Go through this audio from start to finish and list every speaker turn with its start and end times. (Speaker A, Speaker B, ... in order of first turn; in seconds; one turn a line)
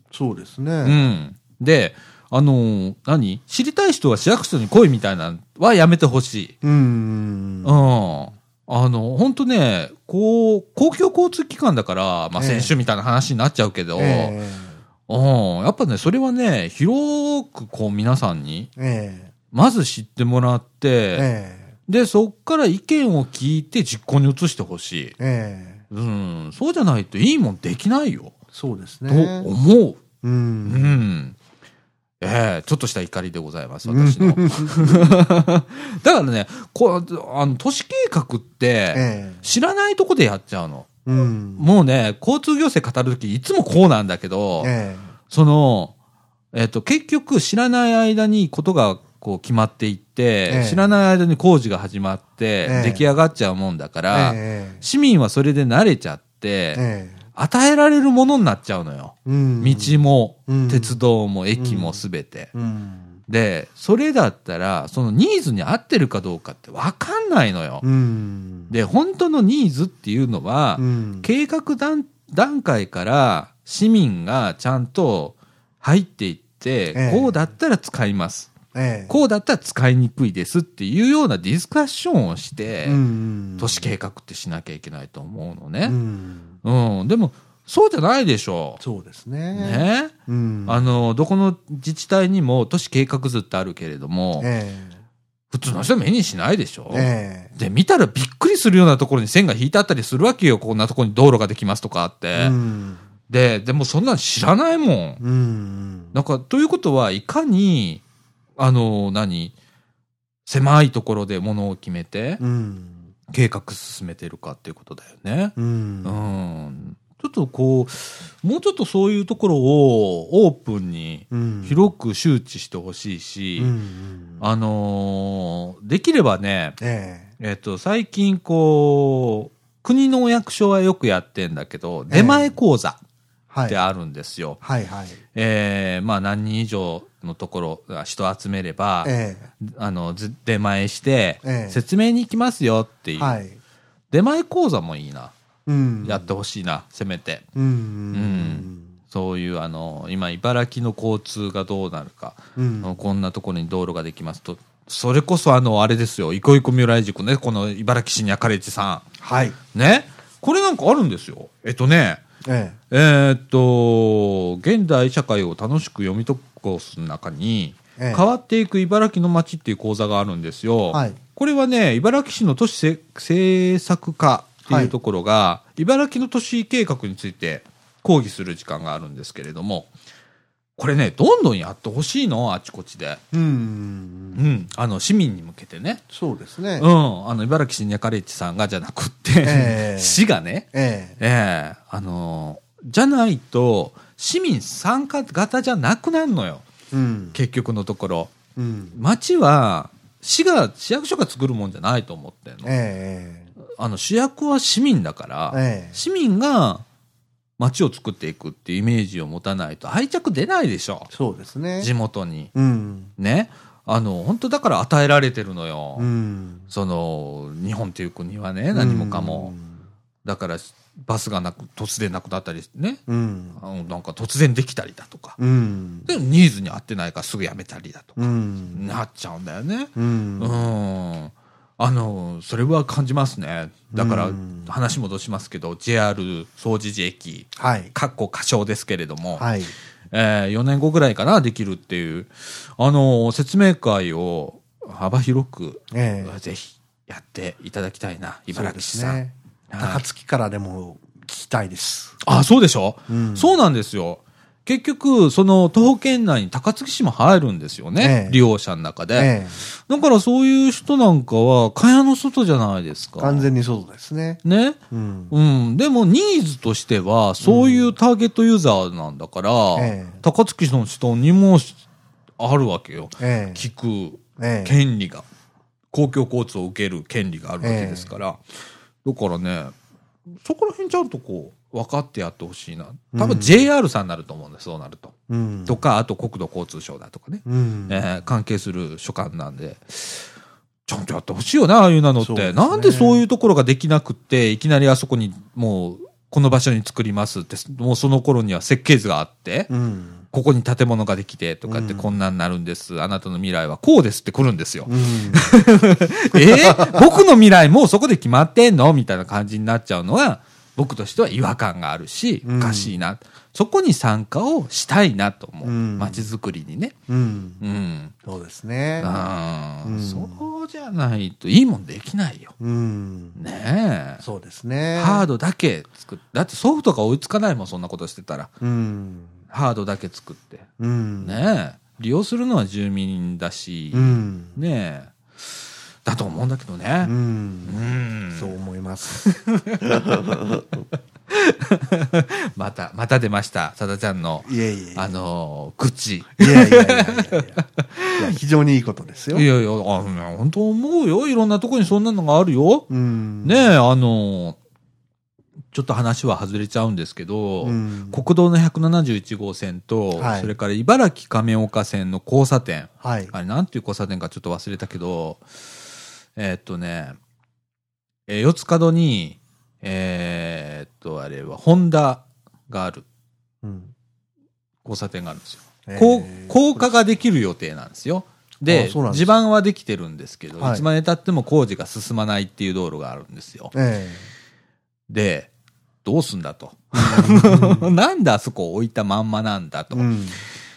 Speaker A: 0.1-1.0
Speaker B: 0.8-6.5
Speaker A: 6.6-7.8
Speaker B: 7.6-14.4
Speaker A: 12.4-12.7
Speaker A: 14.0-14.8
Speaker B: 15.1-18.7
Speaker A: 18.8-19.3
Speaker B: 19.5-21.3
Speaker A: 21.1-21.7
Speaker B: 21.9-25.1
Speaker A: 25.2-25.8
Speaker B: 25.9-28.4
Speaker A: 28.5-29.5
Speaker B: 29.1-30.0
Speaker A: 30.2-31.0
Speaker B: 30.7-31.4
Speaker B: 32.2-40.9
Speaker A: 33.9-35.2
Speaker A: 38.9-39.4
Speaker A: 41.1-41.7
Speaker B: 41.6-44.7
Speaker A: 44.6-45.1
Speaker B: 45.3-45.9
Speaker B: 46.5-56.8
Speaker A: 50.5-50.9
Speaker A: 52.6-53.0
Speaker A: 54.1-54.8
Speaker A: 56.8-57.2
Speaker B: 57.4-62.5
Speaker A: 59.3-61.0
Speaker A: 61.6-62.0
Speaker A: 62.5-63.2
Speaker B: 63.3-67.9
Speaker A: 67.8-68.7
Speaker B: 68.7-78.6
Speaker A: 70.8-71.3
Speaker A: 76.9-77.3
Speaker A: 78.7-79.2
Speaker B: 79.1-83.0
Speaker A: 82.8-83.9
Speaker B: 83.6-86.0
Speaker A: 85.8-86.5
Speaker B: 86.6-88.8
Speaker A: 88.8-90.9
Speaker B: 89.5-90.1
Speaker B: 90.7-94.5
Speaker A: 94.4-95.0
Speaker B: 95.5-102.6
Speaker A: 96.9-97.5
Speaker A: 102.4-103.0
Speaker B: 103.3-105.2
Speaker A: 105.2-106.2
Speaker B: 106.1-108.0
Speaker B: 108.6-109.5
Speaker B: 110.5-112.4
Speaker A: 112.4-113.1
Speaker B: 113.3-123.7
Speaker A: 115.6-116.3
Speaker A: 121.3-121.9
Speaker A: 123.6-124.4
Speaker B: 124.4-126.8
Speaker A: 126.8-127.3
Speaker B: 127.4-133.0
Speaker A: 132.1-132.6
Speaker A: 133.5-133.8
Speaker B: 133.7-134.6
Speaker A: 134.6-135.2
Speaker B: 135.3-143.4
Speaker A: 139.0-139.5
Speaker A: 141.4-141.8
Speaker A: 143.2-143.6
Speaker B: 144.1-145.3
Speaker A: 145.7-146.3
Speaker B: 146.0-147.4
Speaker A: 147.6-148.9
Speaker B: 148.1-159.1
Speaker A: 152.6-153.0
Speaker A: 159.2-159.6
Speaker B: 159.7-162.2
Speaker A: 162.4-162.8
Speaker B: 162.9-179.9
Speaker A: 168.0-168.3
Speaker A: 170.9-171.2
Speaker B: 180.8-183.2
Speaker A: 183.3-184.4
Speaker B: 184.3-186.0
Speaker A: 186.1-186.9
Speaker B: 186.8-196.7
Speaker A: 189.4-191.2
Speaker A: 196.9-197.4
Speaker B: 197.3-198.3
Speaker A: 198.6-199.0
Speaker B: 198.9-202.7
Speaker A: 202.7-203.5
Speaker B: 203.8-206.8
Speaker A: 205.5-206.0
Speaker B: 207.6-211.1
Speaker A: 211.1-211.9
Speaker B: 211.8-212.5
Speaker A: 212.6-213.1
Speaker B: 213.2-216.1
Speaker A: 216.0-216.7
Speaker B: 216.7-219.5
Speaker A: 218.7-219.8
Speaker B: 220.2-223.0
Speaker A: 223.1-223.6
Speaker B: 223.6-225.4
Speaker A: 225.4-226.1
Speaker B: 226.1-239.5
Speaker A: 228.2-228.9
Speaker A: 230.0-230.7
Speaker A: 233.9-234.7
Speaker A: 237.6-237.9
Speaker A: 239.4-239.7
Speaker B: 240.1-250.0
Speaker A: 245.9-246.3
Speaker A: 248.5-252.2
Speaker B: 252.2-263.5
Speaker A: 253.1-253.6
Speaker A: 258.0-258.4
Speaker A: 259.1-259.6
Speaker A: 263.2-265.3
Speaker B: 264.4-264.8
Speaker B: 265.3-271.8
Speaker A: 267.4-267.9
Speaker A: 269.8-270.2
Speaker B: 272.4-275.2
Speaker A: 273.2-273.6
Speaker A: 274.4-274.8
Speaker B: 275.9-278.4
Speaker A: 277.6-278.1
Speaker B: 279.1-279.7
Speaker B: 280.4-285.1
Speaker A: 283.1-283.7
Speaker A: 285.3-285.8
Speaker B: 285.7-290.3
Speaker A: 287.5-288.1
Speaker B: 290.9-299.7
Speaker A: 292.2-293.2
Speaker A: 299.7-300.2
Speaker B: 300.3-317.0
Speaker A: 301.7-302.1
Speaker A: 304.9-305.5
Speaker A: 306.3-307.1
Speaker A: 312.4-312.9
Speaker A: 315.6-316.3
Speaker A: 317.1-317.6
Speaker B: 317.6-318.1
Speaker A: 318.2-319.1
Speaker B: 319.0-322.5
Speaker A: 319.8-320.4
Speaker A: 322.6-323.4
Speaker B: 323.4-324.2
Speaker A: 324.2-325.3
Speaker B: 324.9-328.5
Speaker A: 328.6-329.4
Speaker B: 329.5-330.7
Speaker A: 330.8-331.4
Speaker B: 331.2-335.5
Speaker A: 333.9-334.6
Speaker B: 336.1-337.1
Speaker A: 337.0-337.8
Speaker B: 337.6-338.6
Speaker A: 338.3-339.2
Speaker B: 339.1-340.4
Speaker B: 341.3-348.3
Speaker A: 344.4-345.1
Speaker A: 346.4-347.6
Speaker A: 348.1-349.5
Speaker B: 349.3-352.9
Speaker A: 352.9-353.7
Speaker B: 353.4-354.6
Speaker B: 355.7-365.4
Speaker A: 357.6-358.2
Speaker A: 360.2-360.5
Speaker A: 363.0-363.3
Speaker B: 366.4-367.2
Speaker B: 368.3-373.1
Speaker A: 373.6-373.9
Speaker B: 374.9-383.7
Speaker A: 375.9-376.9
Speaker A: 378.7-379.4
Speaker A: 380.6-380.9
Speaker A: 383.7-384.3
Speaker B: 385.1-385.5
Speaker B: 386.0-390.1
Speaker A: 386.9-387.9
Speaker A: 389.9-390.4